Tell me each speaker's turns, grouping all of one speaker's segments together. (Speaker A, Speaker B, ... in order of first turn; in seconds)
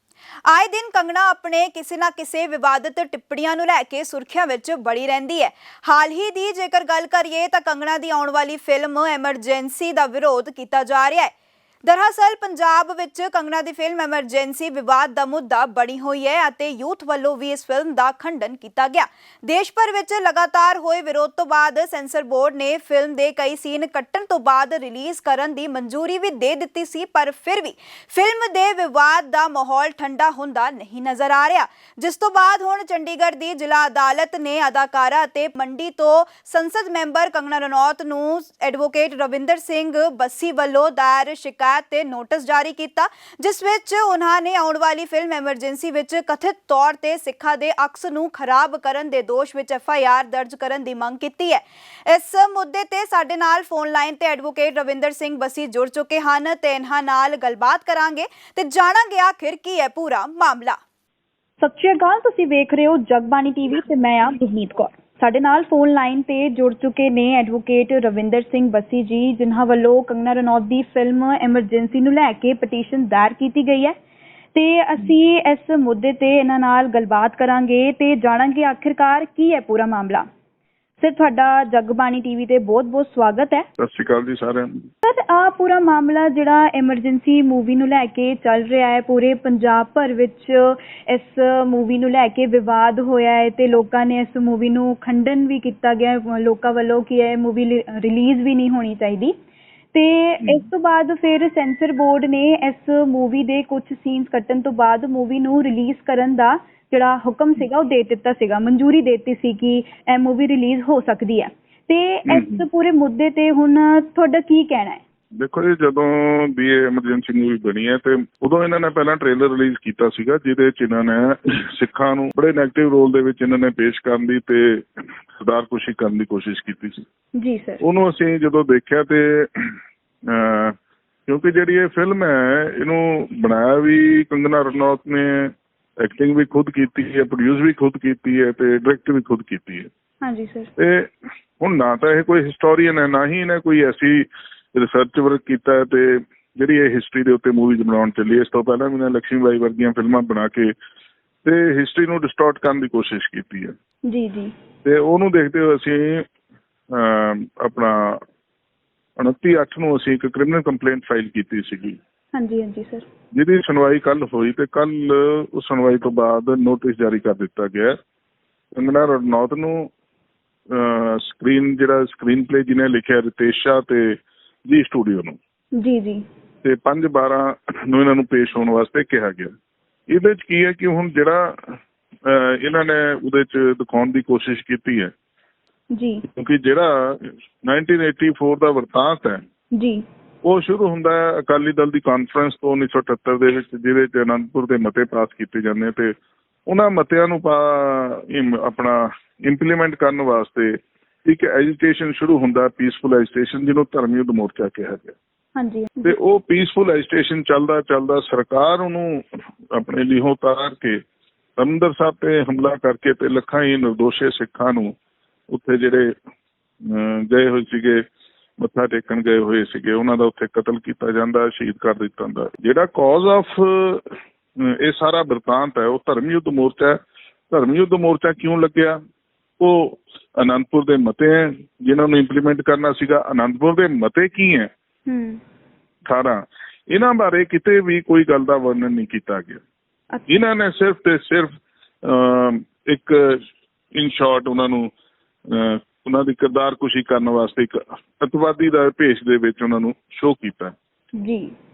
Speaker A: 0.5-11.3, 11.8-60.8
Speaker B: 61.6-74.0, 74.5-80.2, 81.0-83.7, 85.0-99.3, 99.9-115.0, 127.3-127.8, 140.2-140.7, 154.1-154.5, 162.3-163.1, 175.8-176.2, 185.9-186.2, 189.8-190.0, 205.6-206.2, 235.1-235.4, 251.2-251.5
Speaker C: 83.8-84.8, 100.4-100.7, 112.3-112.6, 115.3-127.1, 127.8-130.8, 131.3-139.9, 140.8-150.7, 151.4-153.7, 154.8-156.2, 156.9-158.2, 159.2-162.0, 163.3-167.9, 168.7-169.9, 170.7-175.4, 176.6-179.5, 180.1-185.1, 186.2-189.4, 190.4-196.2, 196.7-205.2, 206.0-211.0, 211.6-214.9, 215.5-216.2, 216.8-218.0, 218.6-224.1, 224.6-227.0, 227.5-229.0, 229.6-234.7, 236.1-239.6, 240.3-243.4, 243.9-244.9, 245.5-250.7